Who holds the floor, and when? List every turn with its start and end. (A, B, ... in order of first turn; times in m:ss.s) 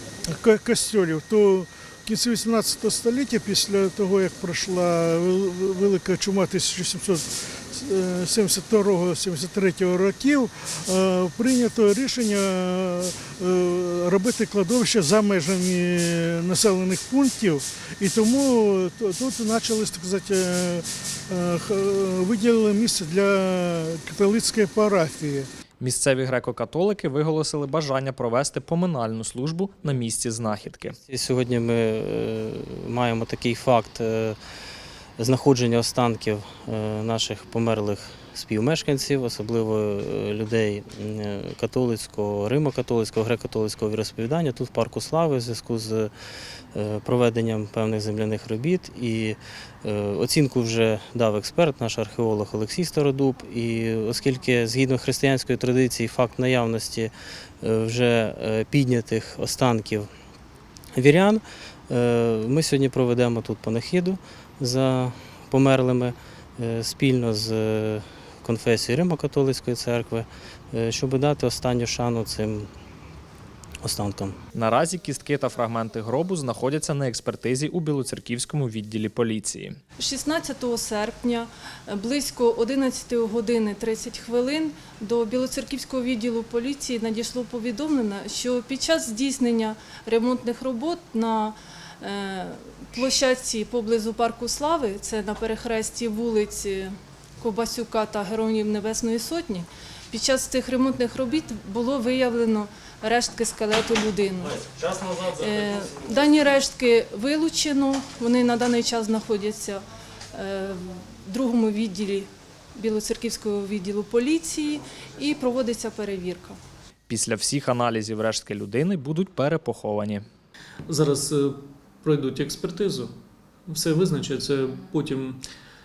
0:00.3-0:25.5 A
0:25.8-0:31.0 B
0:31.0-0:34.4 C
0:35.2-0:46.1 C
0:46.7-1:00.1 C
1:00.9-1:12.7 C
1:13.8-1:14.4 C
1:14.5-1:19.8 B
1:20.0-1:56.6 D
1:57.1-2:00.2 B
2:00.9-2:03.2 E
2:03.7-2:05.4 E